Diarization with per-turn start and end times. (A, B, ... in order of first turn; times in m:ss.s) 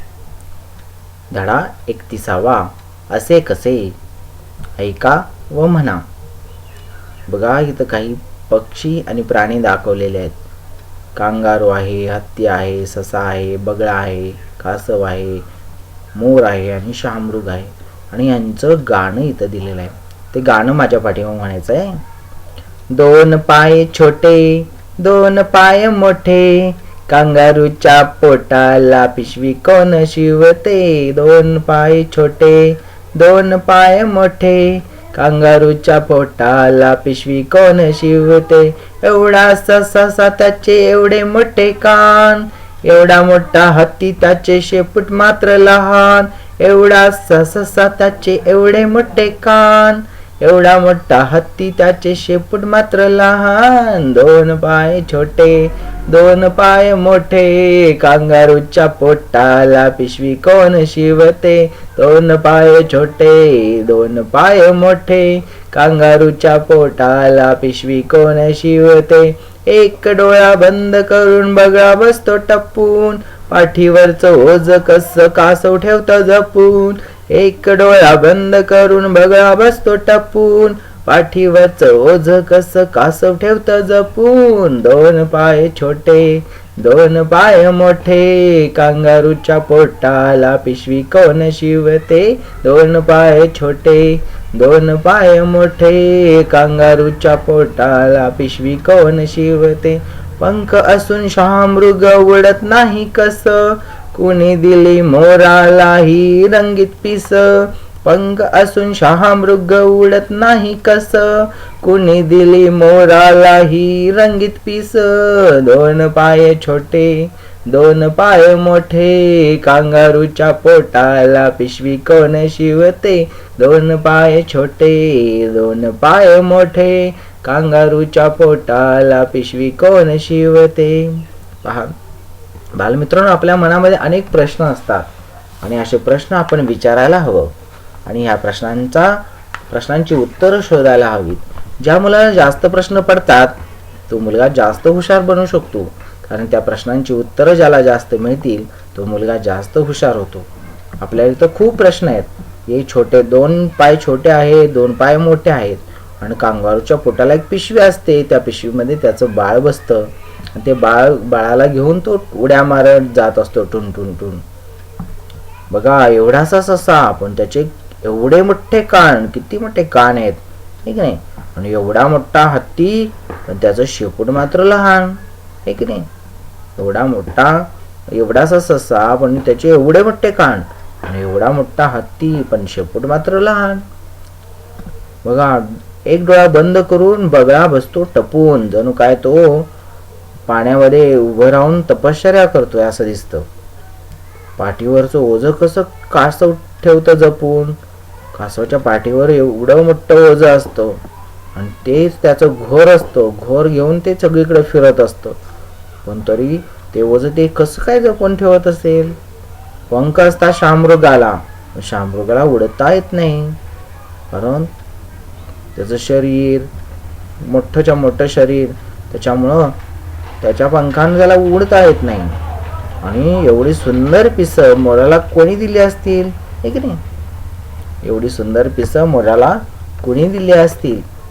0:01.3-0:04.0 A
0:04.8-0:06.0 A
0:07.3-0:10.4 A
0:11.2-0:15.5 A
0:16.1-0:22.0 A
0:22.9-2:11.9 A
2:12.7-2:15.0 A
2:15.6-2:17.5 A
2:18.0-2:23.6 A
2:24.1-2:30.5 A
2:31.0-2:44.4 A
2:45.7-2:56.1 A
2:56.8-3:03.8 A
3:05.2-3:09.7 A
3:10.5-3:13.5 A
3:14.6-3:17.8 A
3:18.3-3:21.0 A
3:21.5-3:25.4 A
3:26.0-3:29.2 A
3:29.9-3:33.6 A
3:34.3-3:34.7 A
3:35.7-3:36.7 A
3:37.4-3:39.8 A
3:40.4-3:42.4 A
3:43.0-3:47.0 A
3:48.0-3:51.0 A